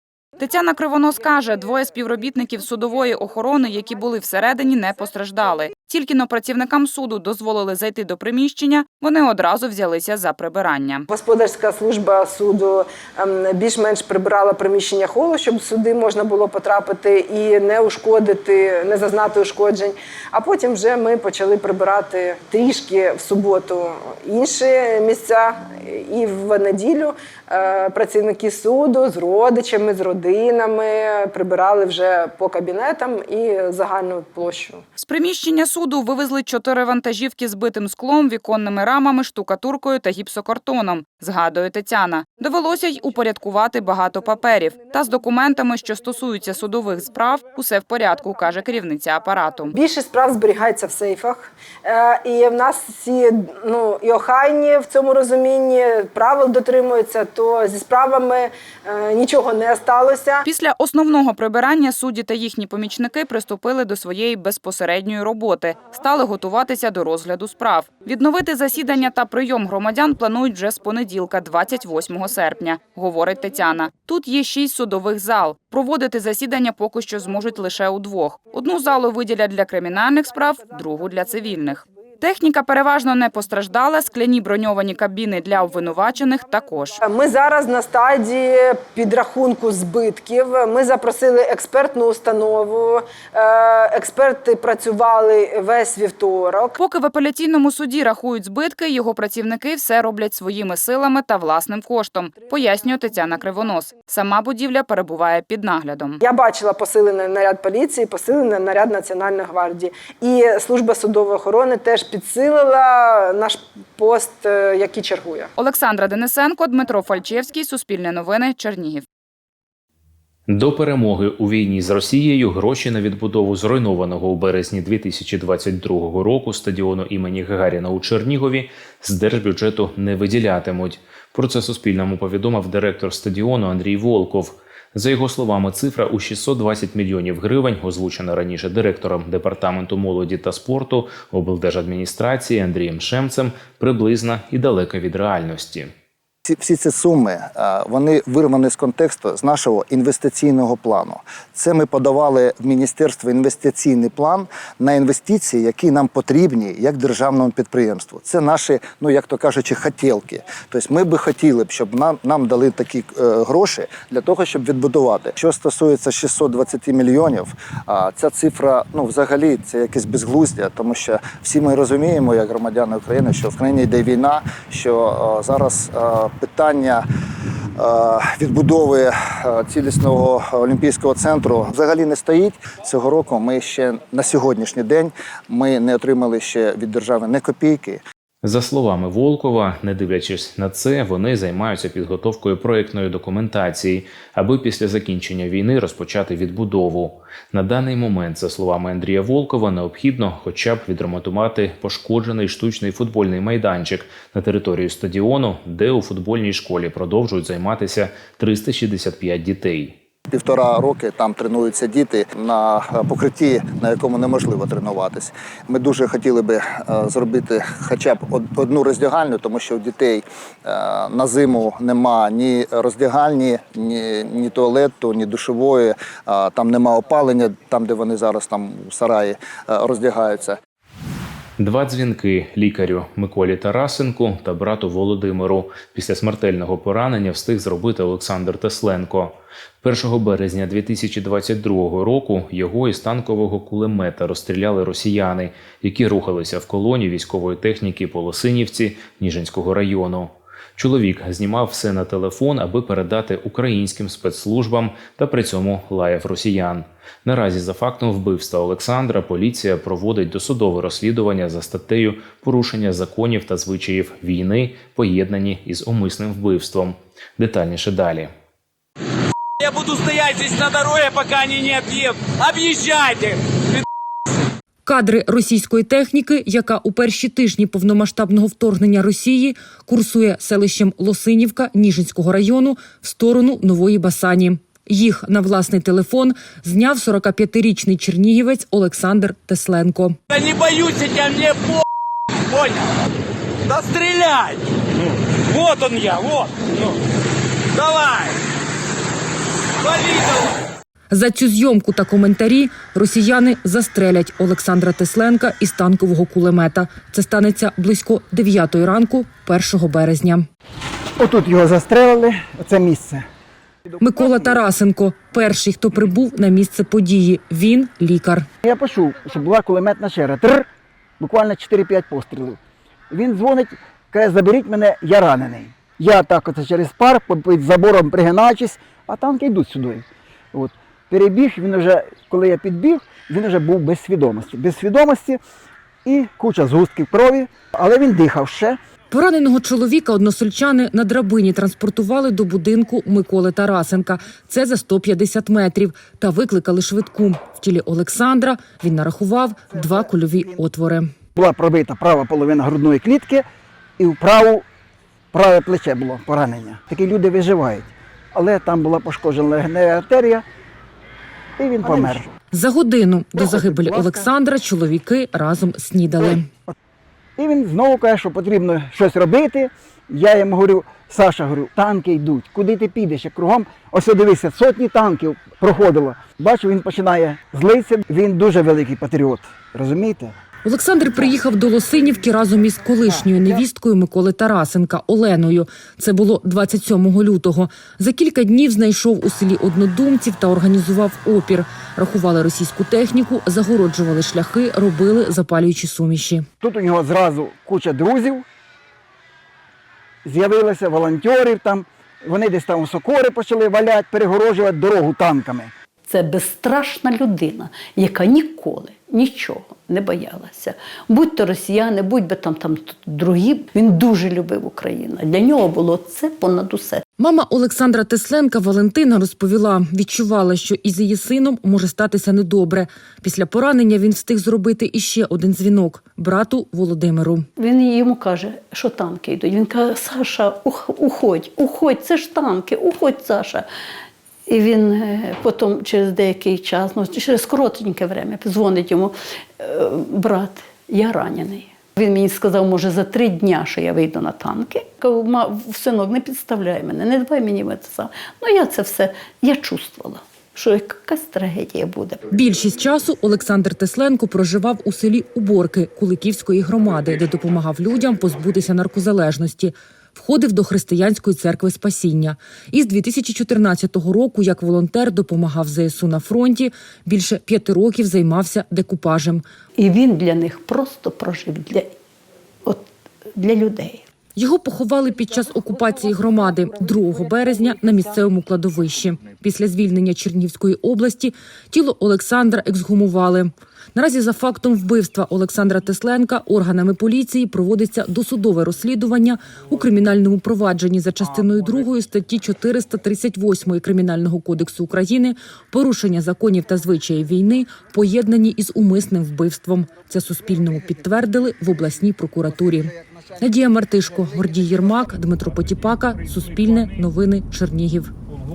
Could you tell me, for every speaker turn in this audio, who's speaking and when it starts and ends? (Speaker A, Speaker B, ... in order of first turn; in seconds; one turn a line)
Speaker A: 0.4-11.1
Speaker B: 11.1-34.8
Speaker A: 35.0-49.8
Speaker B: 49.8-60.4
Speaker A: 60.4-87.0
Speaker B: 87.1-96.7
Speaker A: 96.8-106.2
Speaker B: 106.2-115.4
Speaker A: 115.6-119.0
Speaker C: 120.5-145.9
Speaker D: 146.4-177.0
Speaker D: 177.8-188.0
Speaker C: 188.4-210.0
Speaker D: 210.3-230.6
Speaker C: 231.6-268.3
Speaker E: 269.6-273.4
Speaker F: 274.8-290.2
Speaker E: 290.3-291.8
Speaker E: 292.5-292.8
Speaker E: 293.7-294.6
Speaker E: 295.5-296.7
Speaker E: 297.8-298.3
Speaker E: 299.8-300.5
Speaker F: 301.1-310.5
Speaker G: 311.2-313.2
Speaker G: 314.0-314.6
Speaker F: 314.0-318.5
Speaker G: 318.6-320.7
Speaker G: 321.2-322.6
Speaker G: 323.1-335.4
Speaker G: 336.1-338.8
Speaker F: 339.1-351.1
Speaker G: 349.7-350.7
Speaker G: 351.3-353.4
Speaker G: 354.0-354.6
Speaker G: 355.3-360.4
Speaker G: 361.6-362.3
Speaker F: 361.9-366.5
Speaker G: 363.4-364.3
Speaker G: 366.2-366.7
Speaker G: 367.4-380.3
Speaker F: 380.6-396.4
Speaker G: 383.2-383.6
Speaker G: 396.6-398.4
Speaker G: 400.2-405.7
Speaker H: 406.1-417.0
Speaker F: 417.2-427.5
Speaker H: 427.6-433.7
Speaker H: 434.5-452.2
Speaker F: 452.3-469.4
Speaker H: 469.8-471.9
Speaker H: 472.7-474.0
Speaker F: 474.4-508.1